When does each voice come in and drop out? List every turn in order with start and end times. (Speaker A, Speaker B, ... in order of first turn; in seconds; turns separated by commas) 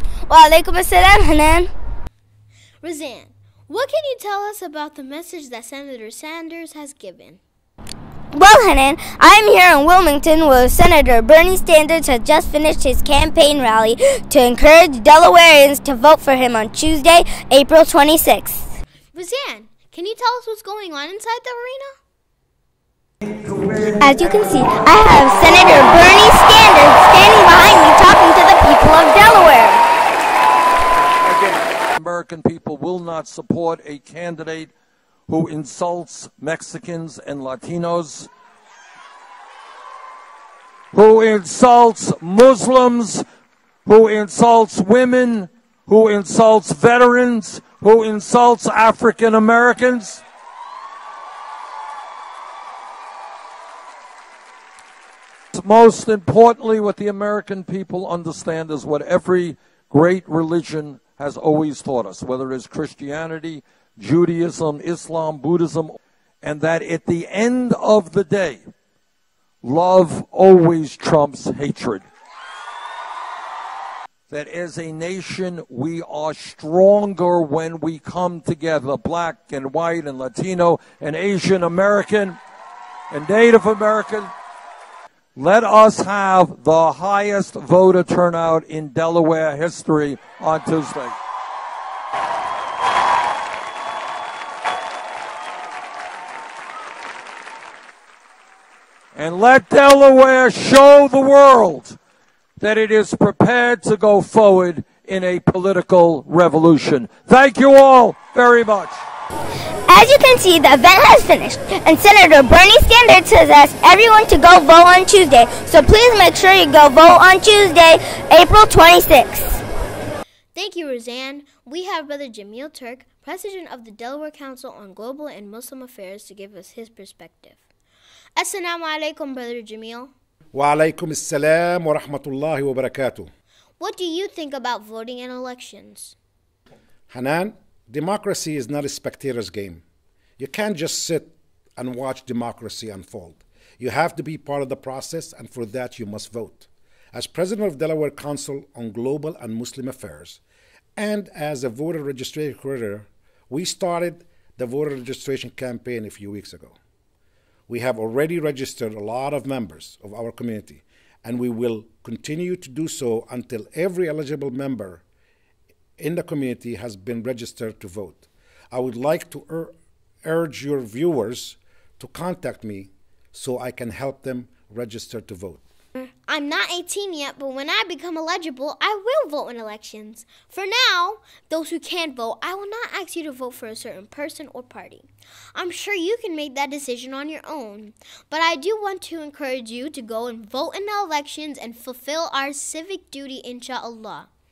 Speaker A: 0.3-1.7, Speaker B: 2.8-7.4, Speaker A: 8.3-18.7, Speaker B: 19.1-22.0, Speaker A: 24.0-29.8, Speaker C: 31.2-34.7, Speaker C: 35.3-38.3, Speaker C: 40.9-43.2, Speaker C: 43.9-50.2, Speaker C: 55.5-68.6, Speaker C: 69.6-72.0, Speaker C: 74.3-82.4, Speaker C: 83.1-84.3, Speaker C: 85.3-91.1, Speaker C: 99.1-102.0, Speaker C: 102.6-109.0, Speaker A: 109.9-119.6, Speaker B: 120.5-127.6, Speaker B: 128.3-130.1, Speaker D: 130.5-133.3, Speaker B: 133.8-136.2, Speaker D: 137.1-139.8, Speaker D: 140.4-150.4, Speaker D: 151.0-156.8, Speaker D: 157.7-165.0, Speaker D: 166.0-169.7, Speaker D: 170.2-175.6, Speaker B: 176.0-194.3